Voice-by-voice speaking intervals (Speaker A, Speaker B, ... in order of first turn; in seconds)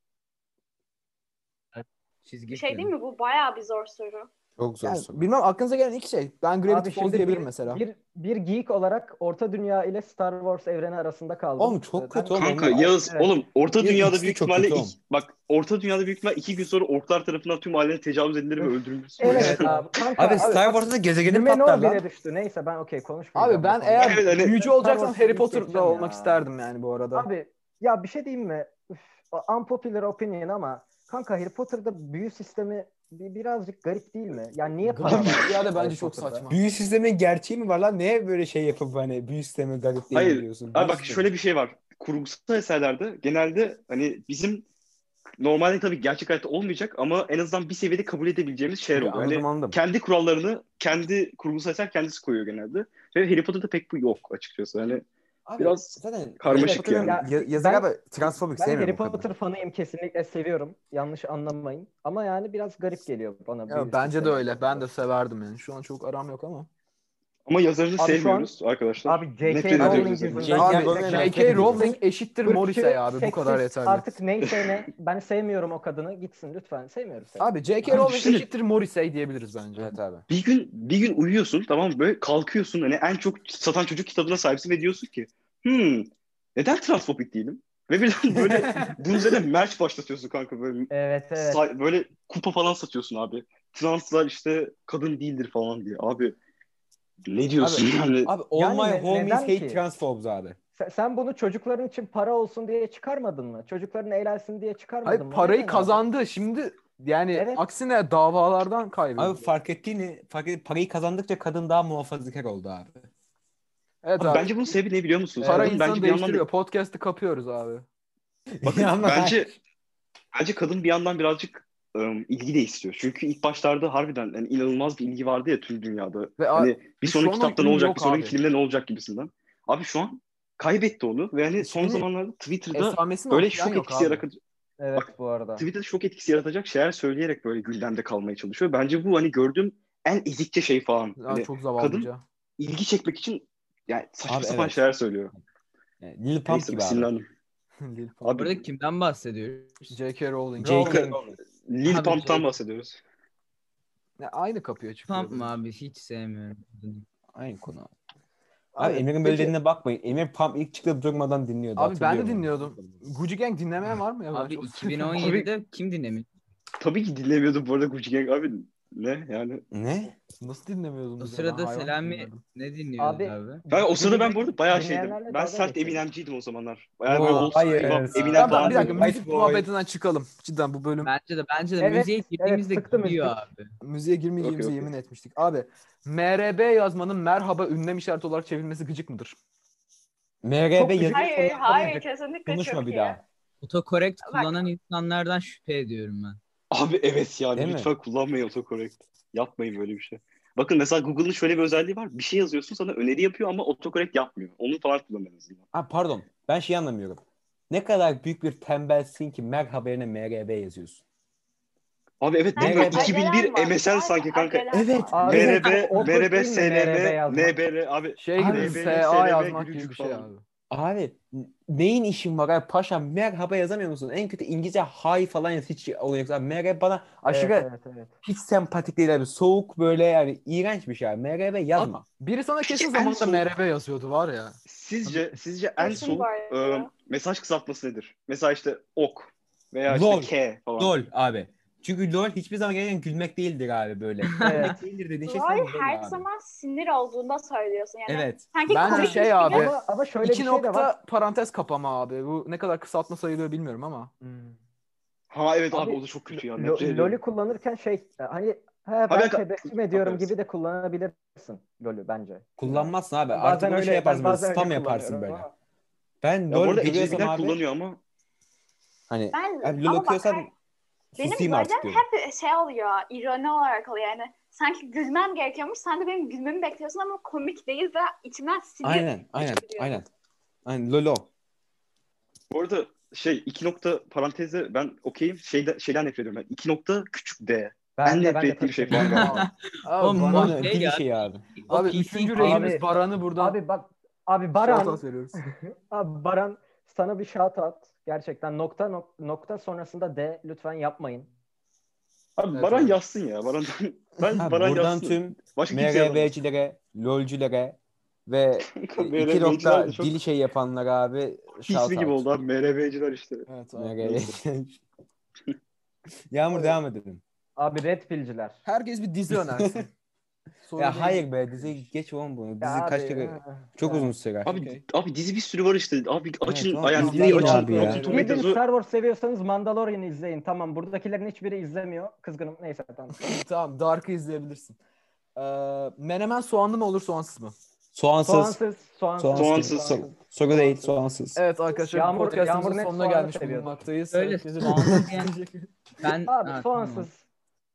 Speaker A: 1.8-2.9, 148.4-149.9, 151.9-152.5, 155.1-157.1, 164.3-166.3, 171.2-173.6, 177.2-178.5, 181.0-183.7, 193.6-196.4, 244.4-244.7, 288.9-292.8, 344.1-345.4, 346.0-347.1
Speaker B: 2.5-4.3, 191.1-193.2, 194.2-194.6, 212.6-215.3, 235.8-236.9, 245.2-249.7, 269.3-270.5, 271.2-280.0
Speaker C: 4.6-5.3, 11.6-12.9, 13.8-14.9, 19.3-19.6, 20.1-22.0, 35.0-35.5, 36.5-41.3, 48.9-49.8, 55.5-59.3, 69.8-71.9, 79.8-80.2, 88.3-89.0, 97.6-100.6, 109.2-113.0, 118.6-119.5, 144.3-144.8, 146.0-147.1, 150.6-151.4, 157.3-157.9, 158.8-163.0, 169.7-170.1, 177.1-179.7, 190.4-193.2, 197.6-197.9, 205.7-211.0, 212.6-213.2, 214.7-215.7, 218.4-218.9, 220.7-227.7, 228.2-232.0, 239.9-246.2, 248.1-248.4, 262.6-265.5, 266.2-267.6, 269.1-270.5, 271.1-272.0, 278.8-280.1, 280.6-281.3, 290.3-291.5, 304.4-312.3, 313.8-314.8, 316.3-317.2, 319.3-319.9, 320.8-324.6, 326.4-328.1, 337.9-338.6, 339.2-341.4
Speaker D: 4.8-7.8, 19.2-20.6, 23.3-27.3, 34.9-36.6, 63.7-66.7, 69.8-74.0, 77.4-80.0, 105.0-109.5, 114.0-114.6, 115.4-117.9, 126.4-128.4, 131.6-132.1, 132.7-134.2, 141.2-142.2, 147.8-148.5, 149.9-151.1, 154.2-155.5, 158.8-159.5, 161.8-165.2, 170.4-172.4, 178.3-181.1, 183.8-189.4, 218.2-220.4, 231.8-234.6, 248.7-254.1, 289.2-290.6, 291.7-293.6, 294.6-295.4, 302.5-303.0, 313.5-314.3, 318.6-319.9, 320.6-321.9, 324.5-324.8, 326.9-328.4, 333.2-334.8, 335.4-337.6, 341.4-345.7
Speaker E: 6.7-13.3, 19.2-26.4, 27.1-36.5, 56.5-64.8, 68.0-68.5, 69.0-77.5, 90.9-91.6, 98.5-99.8, 100.8-106.0, 107.3-107.6, 134.8-135.7, 173.0-176.0, 181.8-183.3, 190.8-191.4, 215.1-217.6, 227.3-228.2, 244.4-244.8, 249.4-250.9, 254.2-254.6, 255.7-265.5, 288.0-289.5, 292.4-292.8, 293.4-301.3, 316.5-316.8, 317.6-318.6, 322.6-324.1, 327.7-333.3, 338.2-341.0, 341.9-343.8, 346.3-347.2
Speaker F: 12.3-19.8, 24.0-24.6, 40.1-44.6, 45.4-55.1, 55.6-57.2, 67.5-70.9, 77.9-78.5, 80.3-96.4, 97.3-98.4, 114.2-116.5, 118.6-119.5, 120.3-134.4, 135.0-145.3, 146.5-147.3, 148.2-148.6, 150.8-153.0, 165.2-165.5, 166.8-169.7, 173.7-179.1, 184.4-184.9, 196.7-205.6, 212.2-214.7, 215.2-220.3, 232.7-233.5, 234.7-240.9, 255.3-257.2, 259.1-260.3, 266.5-268.0, 282.5-289.4, 302.4-306.3, 308.6-310.2, 311.6-313.5, 324.5-328.6, 339.3-340.0